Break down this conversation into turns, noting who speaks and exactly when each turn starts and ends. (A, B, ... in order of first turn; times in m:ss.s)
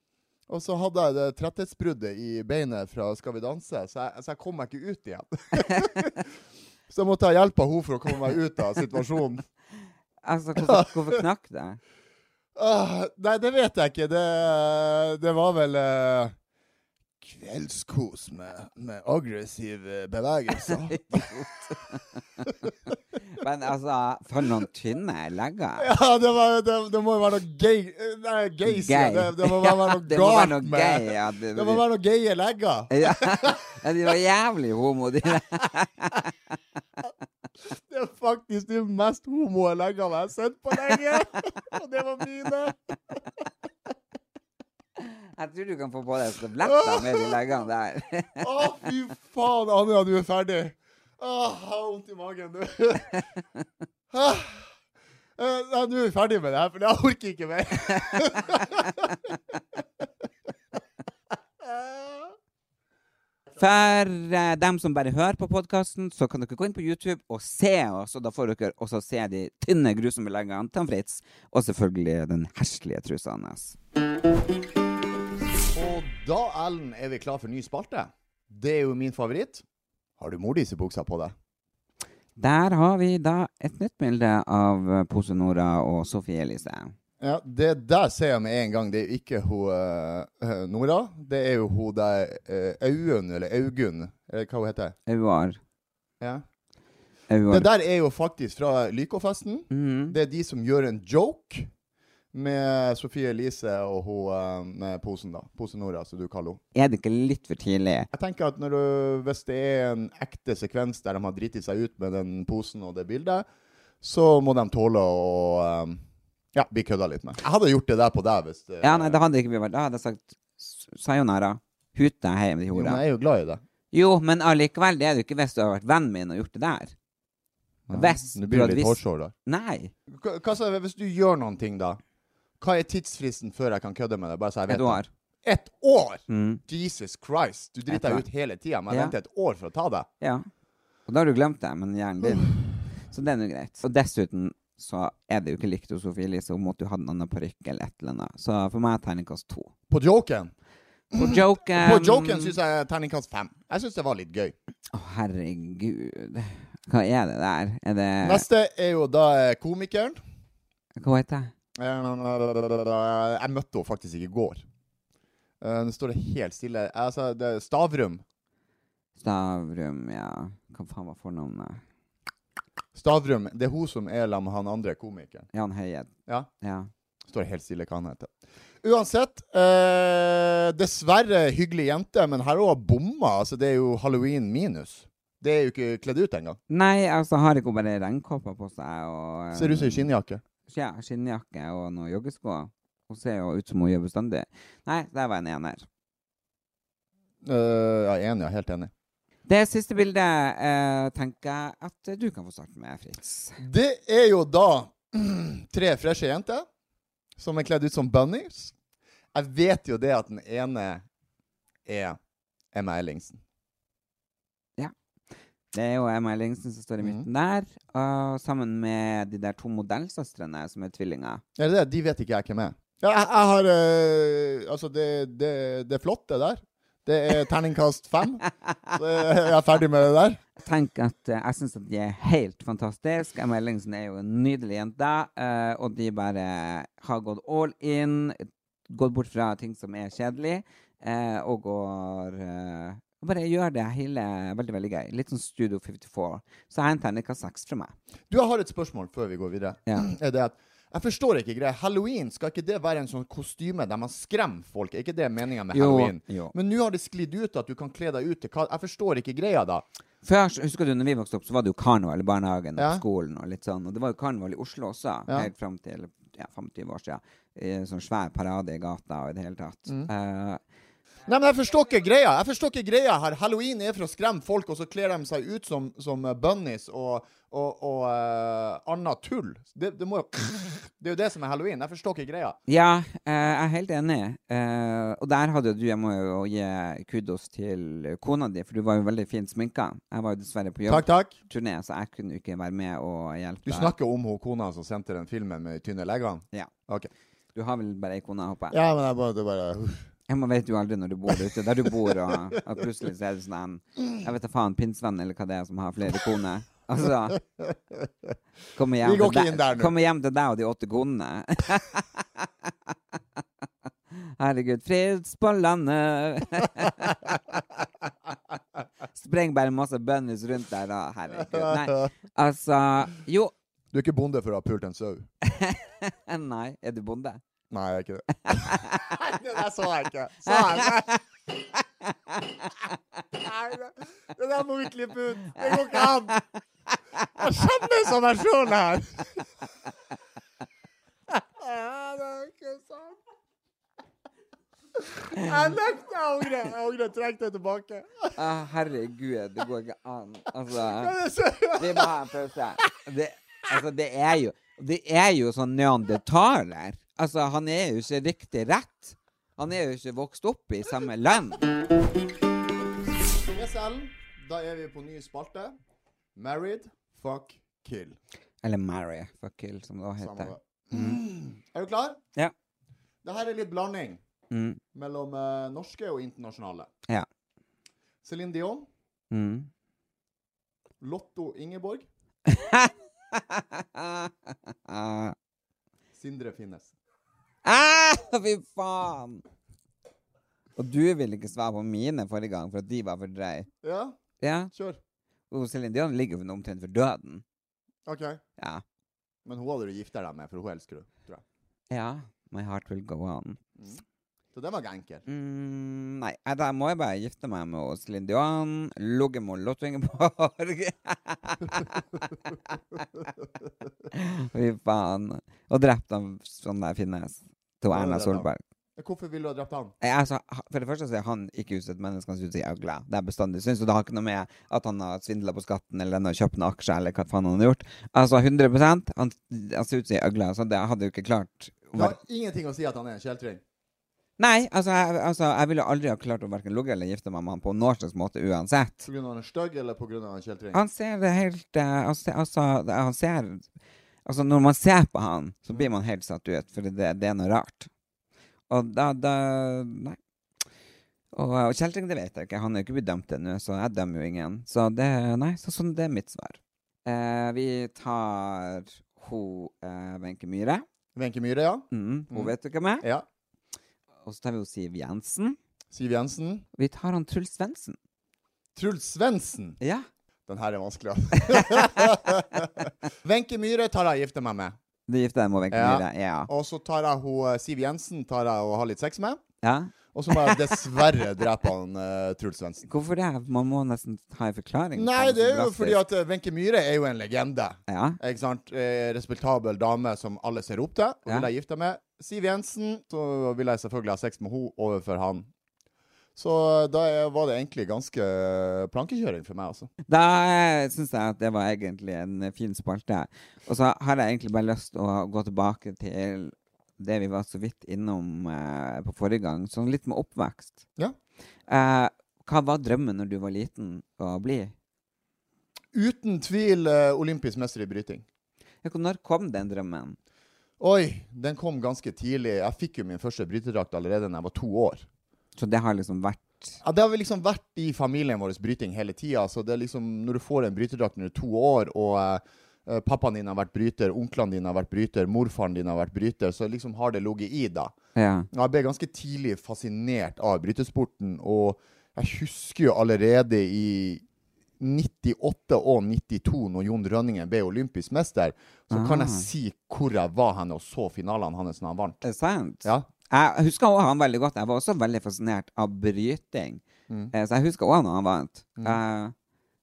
0:00.5-0:06.3 A
0:06.9-0:09.4 A
0:10.2-0:11.8 B
0:10.6-0:11.2 A
0:12.6-0:16.3 A
0:17.2-0:21.3 A
0:20.9-0:22.0 B
0:23.3-0:25.9 B
0:25.8-0:33.6 A
0:28.6-0:31.8 B
0:32.9-0:36.3 B
0:37.6-0:43.1 A
0:45.0-0:48.7 B
0:46.6-0:47.4 A
0:48.4-0:53.2 A
0:54.1-0:54.7 A
0:55.4-0:59.3 A
1:01.6-1:02.3 A
1:03.6-1:13.8 B
1:15.7-1:19.6 A
1:20.2-1:21.3 A
1:22.4-1:26.9 B
1:27.2-1:34.9 A
1:35.1-1:35.6 B
1:37.3-1:37.7 B
1:37.5-1:41.7 A
1:39.7-1:40.2 B
1:42.3-1:46.6 A
1:46.7-1:48.1 B
1:48.1-1:53.4 A
1:54.0-1:56.0 A
1:56.5-1:59.2 A
1:58.8-2:03.0 B
2:02.7-2:03.6 A
2:03.9-2:06.9 B
2:07.9-2:09.3 A
2:07.9-2:09.9 B
2:10.1-2:12.0 A
2:12.6-2:20.1 A
2:14.7-2:15.1 B
2:16.3-2:16.6 B
2:17.9-2:18.2 B
2:18.9-2:19.1 B
2:20.2-2:20.4 B
2:21.1-2:29.7 B
2:29.9-2:30.5 A
2:31.1-2:34.5 A
2:31.1-2:32.6 B
2:34.9-2:38.4 B
2:38.2-2:40.2 A
2:41.0-2:41.5 B
2:41.8-2:44.6 A
2:45.6-2:48.2 A
2:49.2-2:51.8 B
2:52.9-2:55.4 A
2:55.5-2:56.9 B
2:57.3-2:58.3 A
2:58.8-3:06.6 A
3:06.7-3:10.1 B
3:09.5-3:10.4 A
3:10.7-3:15.8 B
3:17.4-3:18.9 A
3:19.5-3:23.6 B
3:23.6-3:26.6 A
3:27.4-3:28.7 A
3:29.3-3:31.0 A
3:31.8-3:32.2 A
3:32.7-3:33.4 A
3:35.7-3:41.4 B
3:37.0-3:37.3 A
3:41.6-3:50.4 A
3:50.6-4:07.9 B
4:08.3-4:19.8 A
4:15.7-4:16.5 B
4:20.2-4:30.6 B
4:22.8-4:23.0 A
4:31.2-4:42.6 A
4:42.7-4:53.9 B
4:50.9-4:51.4 A
4:53.6-4:57.1 A
4:57.5-4:58.8 B
4:58.7-5:00.0 A
5:00.3-5:07.4 B
5:01.8-5:02.5 A
5:07.4-5:08.3 A
5:08.7-5:12.4 B
5:09.0-5:09.9 A
5:14.1-5:17.2 B
5:19.1-5:23.5 B
5:21.4-5:22.0 A
5:23.9-5:25.3 A
5:25.4-5:27.4 B
5:27.7-5:31.2 A
5:28.5-5:29.1 B
5:30.5-5:30.9 B
5:33.3-5:36.4 A
5:35.5-5:36.1 B
5:37.4-5:39.4 A
5:41.3-5:43.2 A
5:45.0-5:48.3 A
5:48.4-5:51.2 B
5:50.8-5:52.1 A
5:51.7-6:01.6 B
6:03.5-6:05.8 A
6:06.4-6:08.2 A
6:08.6-6:11.2 B
6:10.2-6:12.2 A
6:13.2-6:14.2 A
6:14.5-6:14.8 B
6:14.9-6:16.9 A
6:18.2-6:18.9 A
6:19.3-6:19.7 B
6:21.0-6:22.1 A
6:22.5-6:25.3 B
6:26.1-6:26.9 A
6:27.6-6:29.4 B
6:30.8-6:33.7 B
6:33.8-6:34.2 A
6:34.4-6:34.7 B
6:34.7-6:35.0 A
6:35.5-6:37.4 B
6:38.0-6:38.4 A
6:38.6-6:38.8 B
6:39.4-6:41.4 A
6:41.9-6:43.6 B
6:44.5-6:45.2 A
6:45.2-6:53.0 B
6:54.1-6:58.6 B
6:57.9-6:59.9 A
7:00.0-7:12.2 B
7:11.9-7:13.6 A
7:14.4-7:19.1 B
7:19.0-7:20.8 A
7:20.7-7:23.7 B
7:24.2-7:27.9 B
7:28.7-7:30.2 B
7:31.3-7:40.8 B
7:41.1-7:43.2 A
7:41.9-7:43.0 B
7:44.2-7:45.6 B
7:45.9-7:46.6 A
7:46.7-7:48.0 B
7:48.8-7:49.8 A
7:49.8-7:50.0 B
7:50.5-7:54.8 A
7:51.4-7:52.1 B
7:55.1-7:56.5 B
7:55.7-7:59.4 A
7:59.6-8:00.9 B
8:00.1-8:02.8 A
8:02.8-8:06.0 B
8:04.9-8:15.5 A
8:07.9-8:08.2 B
8:16.4-8:19.9 A
8:20.1-8:30.8 B
8:31.7-8:34.7 B
8:35.9-8:38.2 A
8:38.8-8:40.2 B
8:40.8-8:45.0 A
8:45.6-8:46.8 B
8:46.8-8:57.9 A
8:58.2-8:58.5 B
8:58.5-9:04.2 A
9:04.8-9:12.2 A
9:08.9-9:09.5 B
9:12.2-9:19.3 B